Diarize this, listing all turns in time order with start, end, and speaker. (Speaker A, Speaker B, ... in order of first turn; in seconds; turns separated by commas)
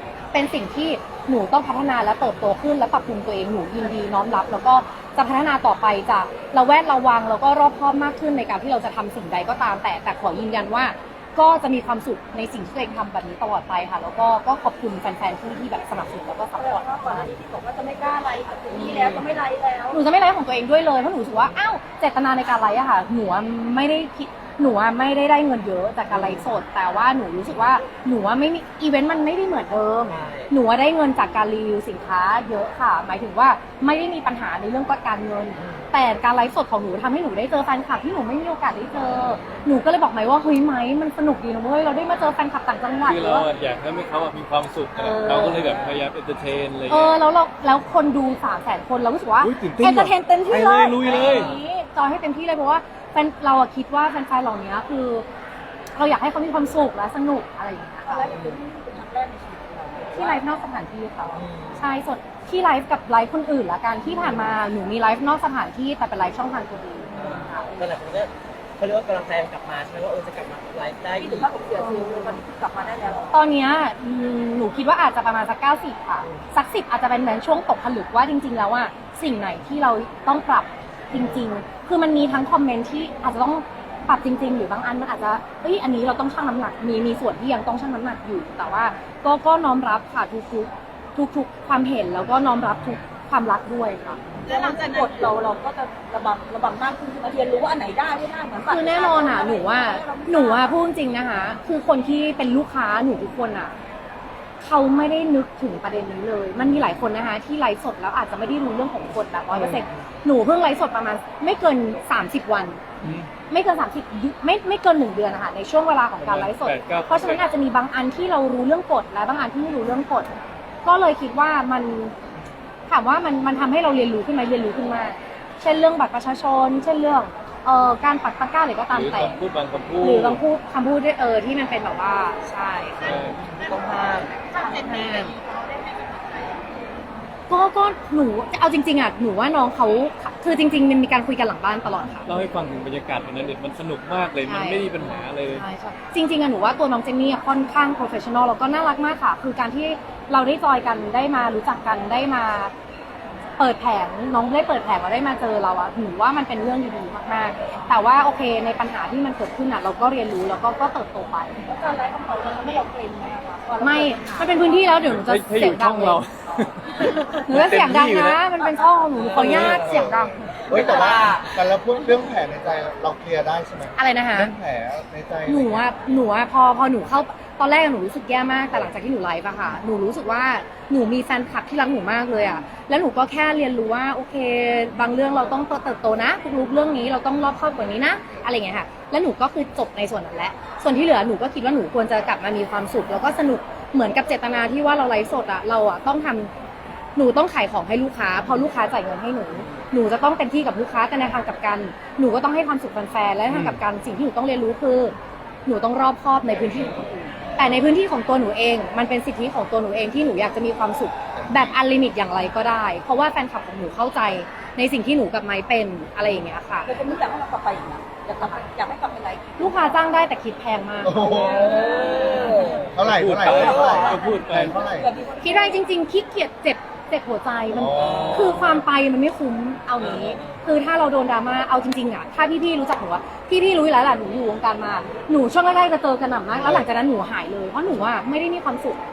Speaker A: 0.3-17.0, Speaker B: 16.6-20.0, Speaker C: 18.7-19.3, Speaker A: 18.8-19.2, Speaker A: 19.9-43.5, Speaker C: 26.1-26.6, Speaker C: 30.1-30.5, Speaker C: 35.5-35.9, Speaker C: 39.1-39.6, Speaker D: 43.0-47.2, Speaker A: 45.0-45.7, Speaker C: 45.3-45.9, Speaker A: 46.9-55.2, Speaker D: 49.4-51.5, Speaker C: 51.2-51.5, Speaker A: 55.9-58.3, Speaker B: 58.1-60.4, Speaker C: 58.2-58.6, Speaker A: 60.1-67.7, Speaker C: 61.3-61.9, Speaker C: 67.2-71.5, Speaker B: 71.2-73.3, Speaker A: 71.8-72.4, Speaker A: 73.3-94.2, Speaker C: 81.1-81.5, Speaker C: 94.4-95.3, Speaker B: 94.5-100.8, Speaker A: 98.6-103.8, Speaker A: 104.6-112.8, Speaker C: 109.5-110.0, Speaker D: 113.0-113.3, Speaker A: 113.5-120.3, Speaker D: 116.2-117.5, Speaker A: 120.8-122.1, Speaker A: 122.9-129.4, Speaker D: 128.9-130.4, Speaker A: 130.0-133.3, Speaker D: 133.0-133.4, Speaker C: 133.1-134.3, Speaker B: 133.6-136.8, Speaker A: 134.5-135.3, Speaker A: 137.5-142.4, Speaker D: 142.3-145.7, Speaker A: 144.4-152.7, Speaker A: 153.6-161.6, Speaker B: 161.7-165.0, Speaker A: 163.8-166.2, Speaker D: 165.1-168.4, Speaker A: 167.1-170.6, Speaker C: 169.1-170.1, Speaker D: 169.3-170.0, Speaker E: 169.7-175.8, Speaker C: 170.7-171.5, Speaker B: 170.7-171.4, Speaker A: 174.0-174.5, Speaker A: 175.5-196.5, Speaker A: 197.2-205.2, Speaker C: 199.6-199.8, Speaker D: 203.5-203.8, Speaker A: 205.7-216.9, Speaker B: 216.8-219.9, Speaker A: 219.6-221.4, Speaker E: 221.0-222.0, Speaker B: 221.1-222.9, Speaker C: 221.5-222.9, Speaker E: 222.8-225.1, Speaker D: 223.0-224.8, Speaker B: 223.4-225.8, Speaker C: 223.5-224.2, Speaker A: 225.4-239.0, Speaker E: 227.7-228.5, Speaker C: 227.9-228.8, Speaker C: 230.0-230.7, Speaker E: 236.6-236.9